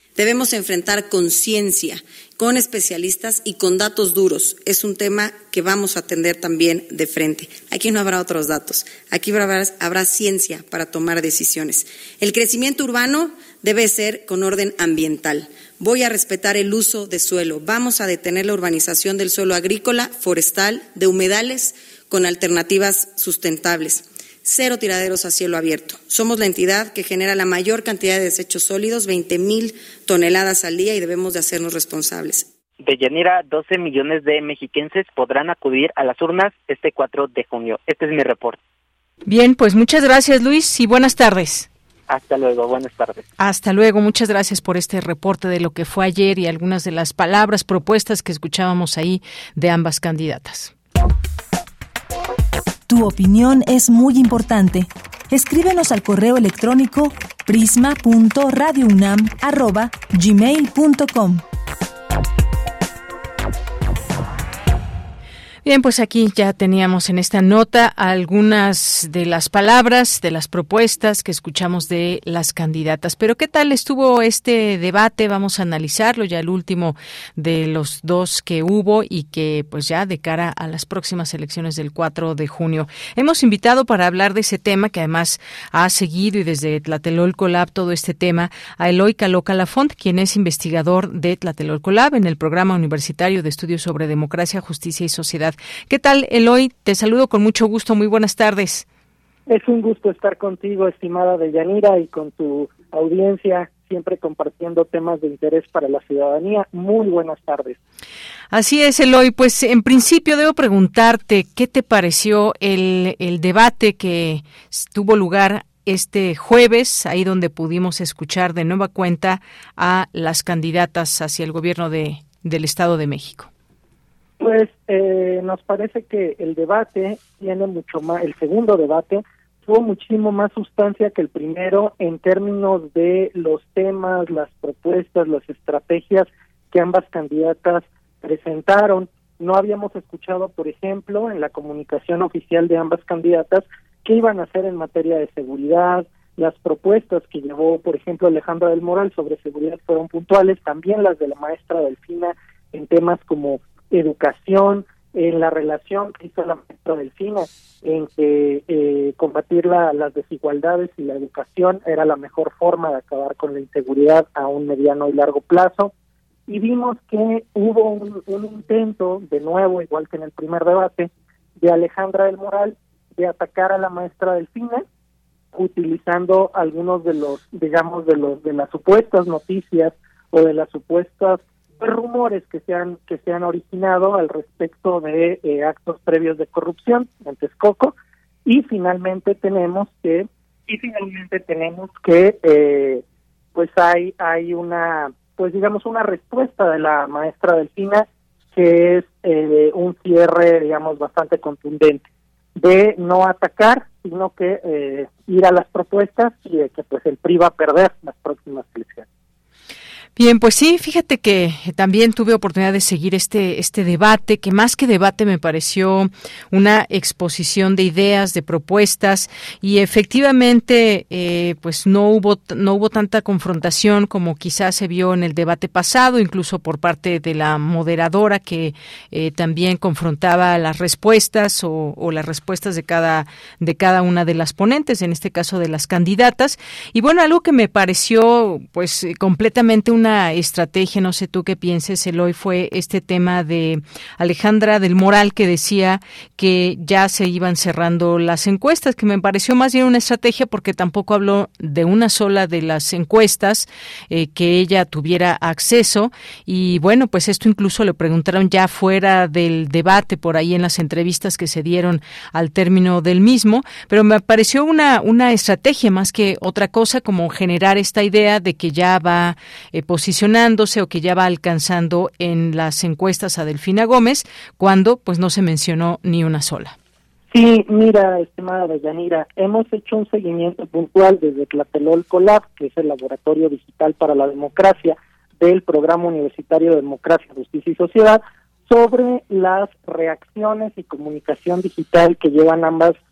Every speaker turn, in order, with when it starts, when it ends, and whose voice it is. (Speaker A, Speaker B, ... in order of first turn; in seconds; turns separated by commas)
Speaker A: 0.2-32.5, Speaker B: 32.8-38.6, Speaker C: 39.3-41.7, Speaker B: 42.1-43.2, Speaker C: 43.4-50.7, Speaker D: 52.9-61.4, Speaker C: 65.7-98.8, Speaker E: 99.5-107.8, Speaker C: 108.5-123.5, Speaker E: 124.4-165.9, Speaker E: 166.5-174.8, Speaker E: 175.5-187.9, Speaker E: 188.5-193.0, Speaker E: 193.6-202.1, Speaker E: 202.6-209.1, Speaker C: 210.2-276.8, Speaker E: 277.3-293.0